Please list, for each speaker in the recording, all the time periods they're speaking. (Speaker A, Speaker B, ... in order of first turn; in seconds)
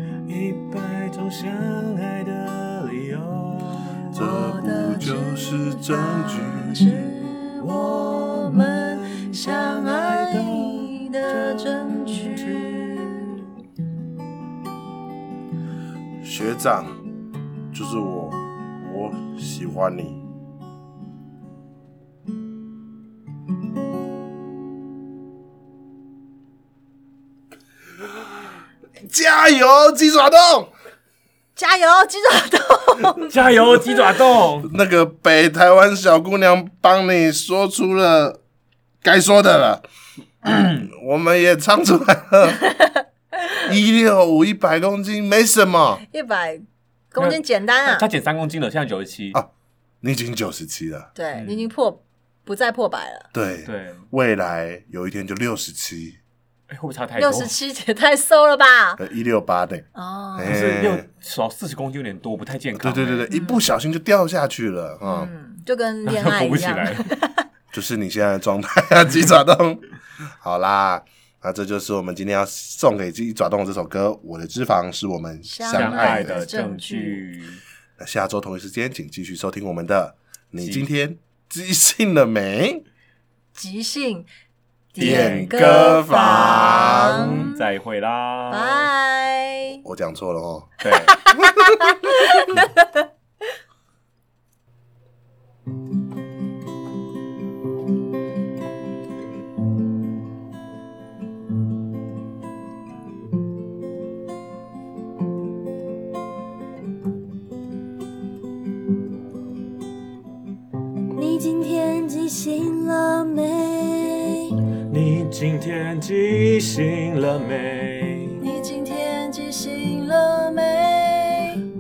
Speaker A: 0.3-4.2, 7.6-13.3, 33.3-34.7, 47.2-49.4, 51.3-51.7, 53.6-54.1, 56.7-57.5, 60.5-63.3, 66.1-67.1, 75.7-77.6, 80.6-80.9, 85.0-88.9, 90.8-91.2, 114.9-118.4
Speaker B: 4.1-7.0, 16.2-17.0, 17.7-20.2, 29.0-30.7, 34.6-38.4, 39.0-39.9, 40.4-42.6, 43.6-46.0, 50.0-51.1, 53.3-56.2, 59.0-59.9, 60.4-61.0, 62.8-65.3, 67.7-69.8, 70.4-76.5, 78.0-82.8, 85.0-87.5, 89.8-90.7
Speaker C: 4.1-13.4, 31.6-33.3, 46.1-48.1, 51.1-53.3, 57.2-59.0, 60.0-60.6, 63.3-63.6, 65.0-67.5, 75.4-77.2, 83.5-84.3, 84.9-87.6, 88.5-89.8, 91.1-92.9, 118.4-121.6
Speaker D: 111.1-114.5